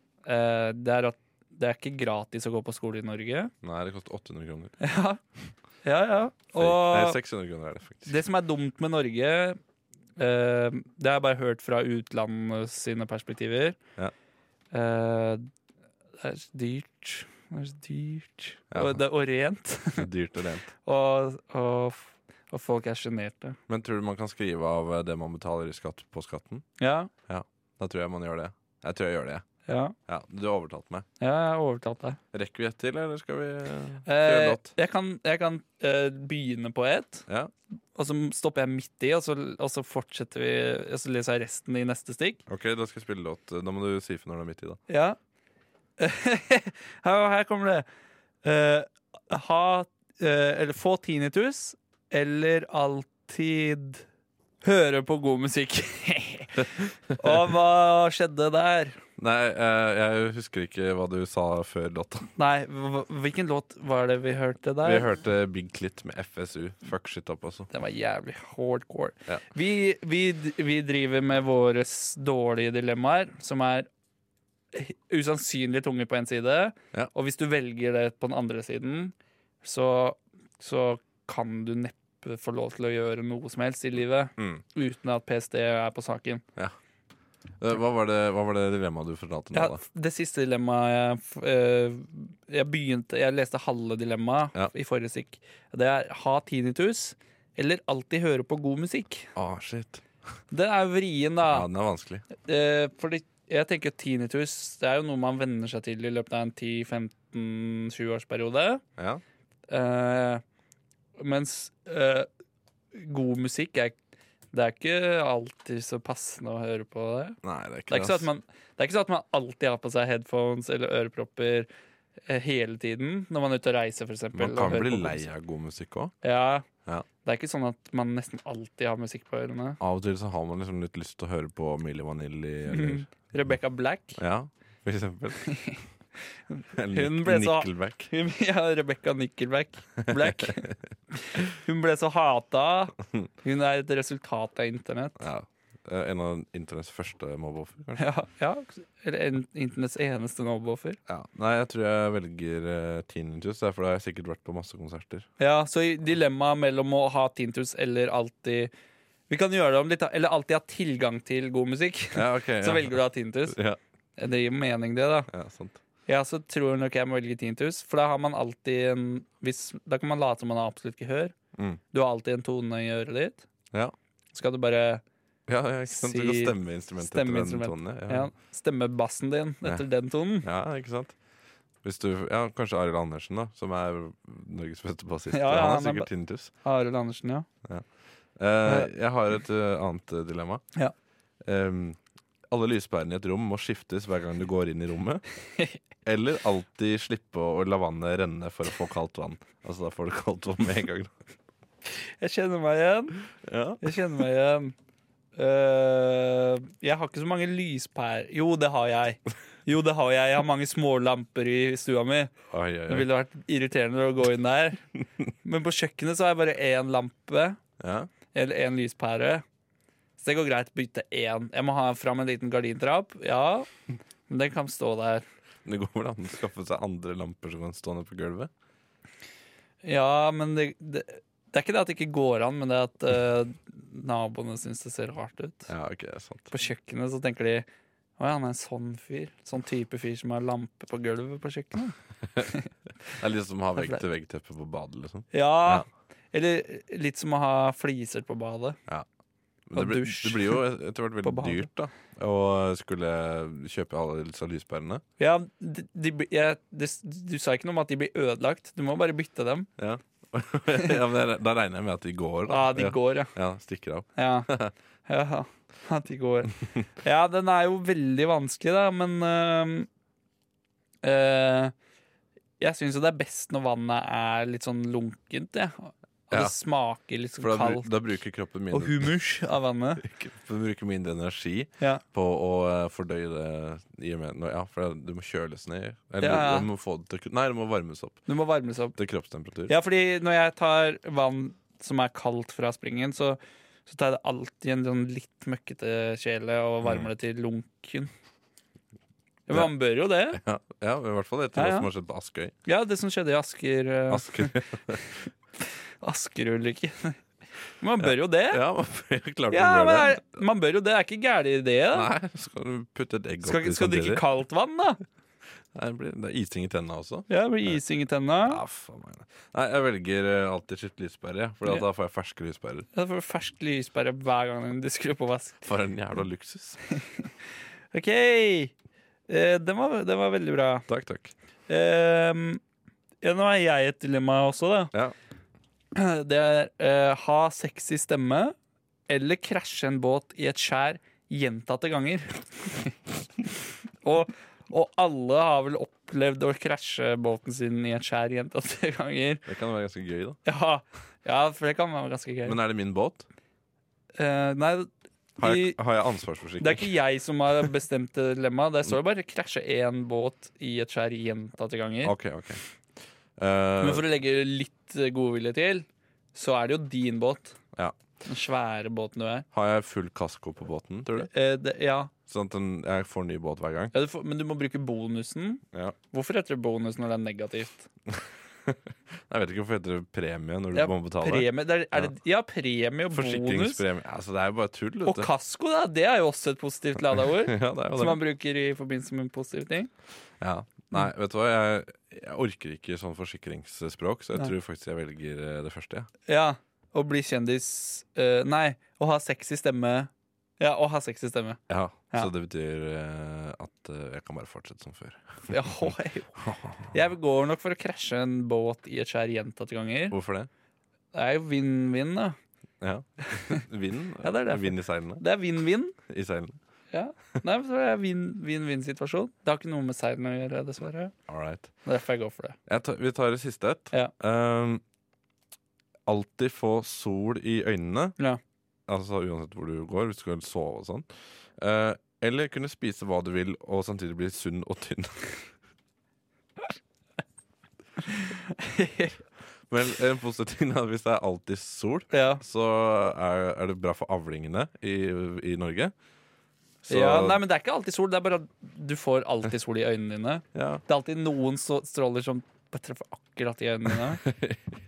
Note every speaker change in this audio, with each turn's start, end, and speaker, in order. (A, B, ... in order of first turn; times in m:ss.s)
0:00.2-0:03.5 A
0:03.6-0:04.8 B
0:04.8-0:05.2 A
0:05.8-0:07.2 A
0:06.5-0:08.2 B
0:08.0-0:09.6 A
0:10.2-0:13.8 A
0:14.7-0:15.4 A
0:16.2-0:20.1 A
0:18.7-0:19.0 B
0:20.0-0:20.7 B
0:20.8-0:23.6 A
0:23.7-0:26.6 B
0:26.8-0:27.1 A
0:27.3-0:29.4 B
0:29.7-0:29.9 A
0:30.1-0:31.0 B
0:31.2-0:32.2 A
0:32.3-0:34.7 B
0:34.0-0:37.2 A
0:37.9-0:42.4 A
0:42.5-0:44.8 B
0:44.9-0:45.2 A
0:46.0-0:47.8 A
0:48.4-0:54.0 A
0:54.6-0:59.0 A
0:59.2-1:02.3 B
1:02.4-1:05.0 A
1:04.8-1:07.7 B
1:07.7-1:13.9 A
1:14.7-1:26.4 A
1:24.4-1:24.6 B
1:27.6-1:29.8 B
1:29.5-1:39.3 A
1:39.3-1:40.0 B
1:40.5-1:41.6 A
1:41.5-1:42.2 B
1:42.4-1:48.8 A
1:49.0-1:49.2 B
1:49.7-1:50.4 A
1:51.2-1:52.3 A
1:52.9-1:54.0 A
1:54.5-2:01.7 A
1:57.4-1:58.3 B
2:02.3-2:05.2 A
2:04.3-2:06.1 B
2:06.2-2:06.7 A
2:07.2-2:09.8 A
2:09.8-2:13.1 B
2:12.7-2:14.2 A
2:14.2-2:15.5 B
2:15.5-2:15.8 A
2:16.5-2:25.2 A
2:16.7-2:18.1 B
2:20.1-2:20.8 B
2:25.2-2:28.0 B
2:28.0-2:31.0 A
2:31.1-2:35.3 B
2:35.4-2:38.7 A
2:39.3-2:43.6 A
2:42.1-2:43.8 B
2:44.2-2:45.3 A
2:45.3-2:45.8 B
2:46.1-2:51.3 A
2:51.5-2:51.8 B
2:51.9-2:53.4 A
2:54.3-2:55.0 A
2:55.5-2:58.3 B
2:55.9-3:00.5 A
3:00.4-3:01.1 B
3:01.8-3:06.5 B
3:05.3-3:06.1 A
3:06.6-3:07.5 A
3:07.6-3:10.6 B
3:11.4-3:12.0 B
3:12.5-3:15.2 B
3:16.0-3:21.1 B
3:21.9-3:23.2 A
3:23.4-3:24.0 B
3:23.8-3:24.7 A
3:25.4-3:32.3 A
3:32.5-3:33.1 B
3:32.9-3:34.8 A
3:35.4-3:37.6 A
3:37.8-3:38.1 B
3:38.3-3:39.4 A
3:40.2-3:43.7 A
3:44.3-3:45.2 A
3:45.6-3:48.5 B
3:49.8-3:55.7 A
3:55.7-3:56.5 B
3:56.5-3:57.6 A
3:58.2-4:02.7 A
4:03.1-4:05.9 B
4:05.3-4:08.8 A
4:09.7-4:15.0 B
4:09.7-4:10.6 A
4:11.2-4:11.7 A
4:15.2-4:19.7 A
4:19.8-4:24.7 B
4:22.5-4:23.3 A
4:24.2-4:24.5 A
4:25.1-4:29.9 A
4:31.0-4:31.7 A
4:32.6-4:37.9 A
4:37.4-4:39.1 B
4:38.7-4:40.0 A
4:40.0-4:48.2 B
4:46.2-4:46.7 A
4:48.3-4:48.9 A
4:48.9-4:49.8 B
4:49.7-4:58.1 A
4:59.5-5:00.4 A
5:00.3-5:02.5 B
5:01.5-5:01.9 A
5:02.6-5:05.0 A
5:04.1-5:05.0 B
5:06.0-5:07.2 A
5:07.8-5:08.6 A
5:08.0-5:10.4 B
5:09.5-5:12.1 A
5:11.9-5:14.2 B
5:13.4-5:15.0 A
5:15.7-5:17.8 B
5:17.3-5:18.6 A
5:18.4-5:22.9 B
5:22.9-5:25.6 A
5:25.6-5:26.8 B
5:27.0-5:27.3 A
5:27.9-5:28.7 A
5:29.3-5:30.9 A
5:30.9-5:31.3 B
5:31.7-5:32.6 A
5:33.2-5:34.9 A
5:35.9-5:38.5 A
5:39.1-5:43.0 A
5:44.0-5:49.4 A
5:49.4-5:50.4 B
5:50.4-5:52.6 A
5:52.4-5:53.3 B
5:54.2-5:55.8 A
5:55.4-5:56.9 B
5:56.6-6:02.1 A
6:02.0-6:02.6 B
6:03.4-6:04.0 B
6:03.8-6:07.6 A
6:08.2-6:09.4 A
6:09.5-6:11.3 B
6:11.2-6:12.1 A
6:12.3-6:13.9 B
6:13.9-6:17.9 A
6:18.1-6:22.1 B
6:20.7-6:23.8 A
6:23.1-6:25.3 B
6:25.0-6:29.9 A
6:27.2-6:28.2 B
6:30.4-6:36.1 B
6:36.3-6:42.3 A
6:41.7-6:46.9 B
6:45.5-6:46.3 A
6:46.9-6:50.2 A
6:50.1-6:50.5 B
6:51.1-6:52.4 A
6:52.8-6:55.2 B
6:54.2-6:56.0 A
6:56.1-6:56.6 B
6:56.9-7:01.1 A
7:01.3-7:01.7 B
7:01.8-7:02.6 A
7:02.7-7:04.8 B
7:06.0-7:08.2 B
7:08.9-7:15.3 B
7:18.1-7:19.2 A
7:19.7-7:25.9 B
7:22.1-7:22.4 A
7:26.8-7:27.4 B
7:26.9-7:34.2 A
7:30.5-7:30.8 B
7:34.2-7:34.6 B